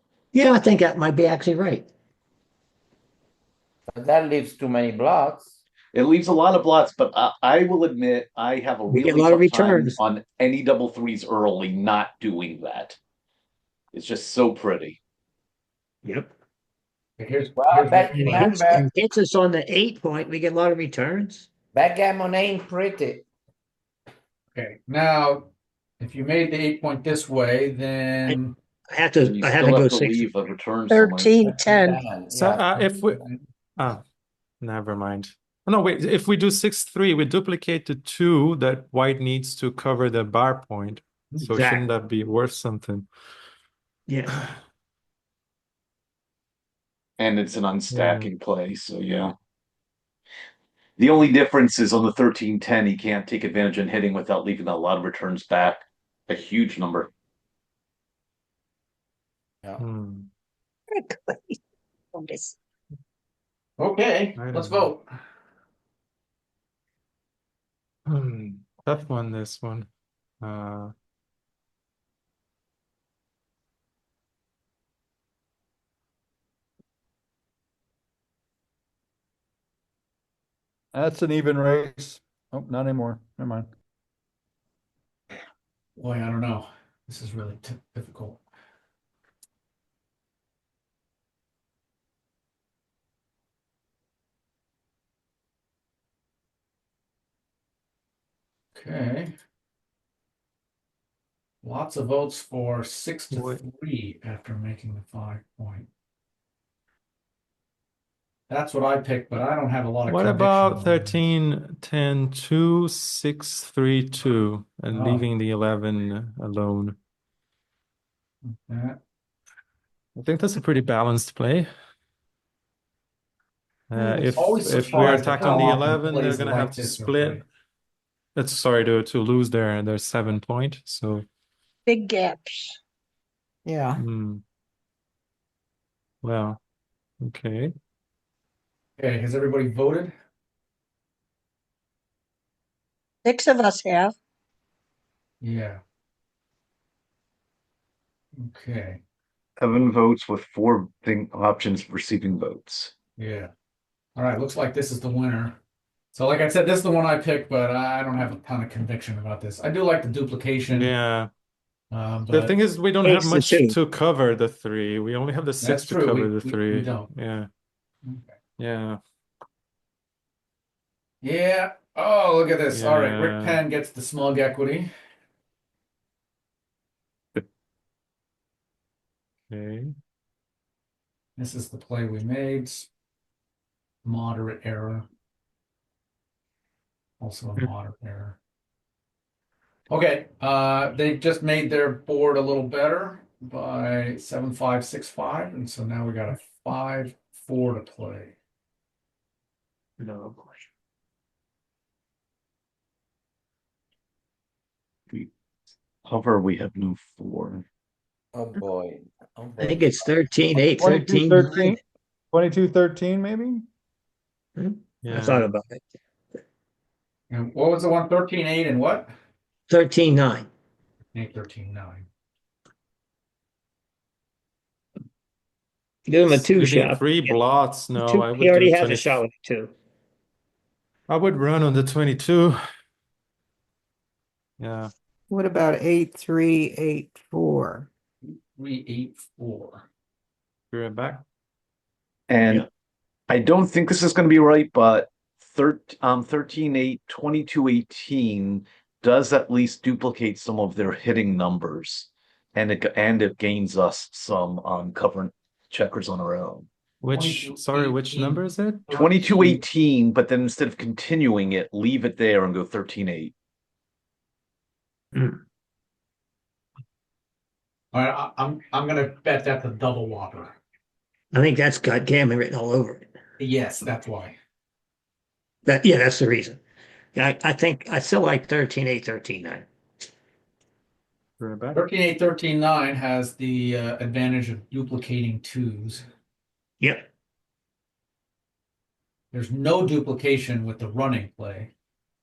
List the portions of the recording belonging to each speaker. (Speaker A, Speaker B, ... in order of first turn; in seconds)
Speaker A: 0.3-1.9, 8.9-10.0, 16.0-16.3, 18.1-21.5, 28.9-30.3, 41.5-41.9, 44.1-44.6, 163.0-163.8, 200.0-200.6, 209.6-211.8, 214.6-215.8, 219.7-220.5, 226.1-227.4, 227.9-229.7, 265.1-265.4, 271.3-273.1, 275.6-276.6, 277.1-279.7, 286.8-287.1
Speaker B: 3.9-5.6, 17.6-18.9, 21.7-23.3, 31.5-32.6, 208.3-210.0
Speaker C: 5.9-13.0, 13.9-15.0, 29.2-31.4, 47.2-49.3, 51.0-57.1, 149.6-152.9, 206.1-207.7, 242.3-242.7, 243.3-256.7, 258.9-263.3
Speaker D: 17.2-18.6, 24.5-28.6, 32.7-33.4, 63.8-65.0, 86.0-88.4, 98.7-99.3, 101.6-105.9, 108.5-111.2, 114.9-115.3, 118.4-119.0, 124.3-127.4, 139.0-140.1, 145.4-145.8, 148.4-149.0, 153.2-153.5, 154.2-155.6, 156.1-160.9, 161.9-162.5, 165.6-167.1, 168.0-168.3, 171.2-174.9, 181.4-182.9, 184.0-185.1, 187.2-188.4, 189.9-198.4, 217.3-219.1, 221.1-222.1, 238.3-239.9, 257.1-259.6, 267.9-270.6, 273.4-274.4, 281.7-286.1, 289.3-291.7
Speaker E: 30.9-32.0, 61.0-61.5, 62.1-62.6, 131.9-132.8, 143.2-144.1
Speaker F: 32.3-33.2, 33.8-34.0, 34.6-43.1, 47.9-48.3, 59.8-60.3, 64.4-64.9, 68.1-69.9, 70.4-70.9, 103.3-103.6, 110.1-117.0, 120.2-121.7, 123.9-127.4, 128.3-131.3, 134.0-134.4, 136.2-136.6, 137.2-137.7, 160.7-161.3, 162.3-167.5, 168.6-169.0, 172.7-173.6, 179.5-179.9, 215.0-215.5, 226.3-229.2, 231.1-232.6, 234.6-234.9, 240.7-241.2, 257.0-259.0, 281.4-281.8
Speaker G: 80.9-83.7, 210.6-211.8, 212.3-213.6
Speaker H: 124.0-125.8, 133.7-134.0, 235.3-237.9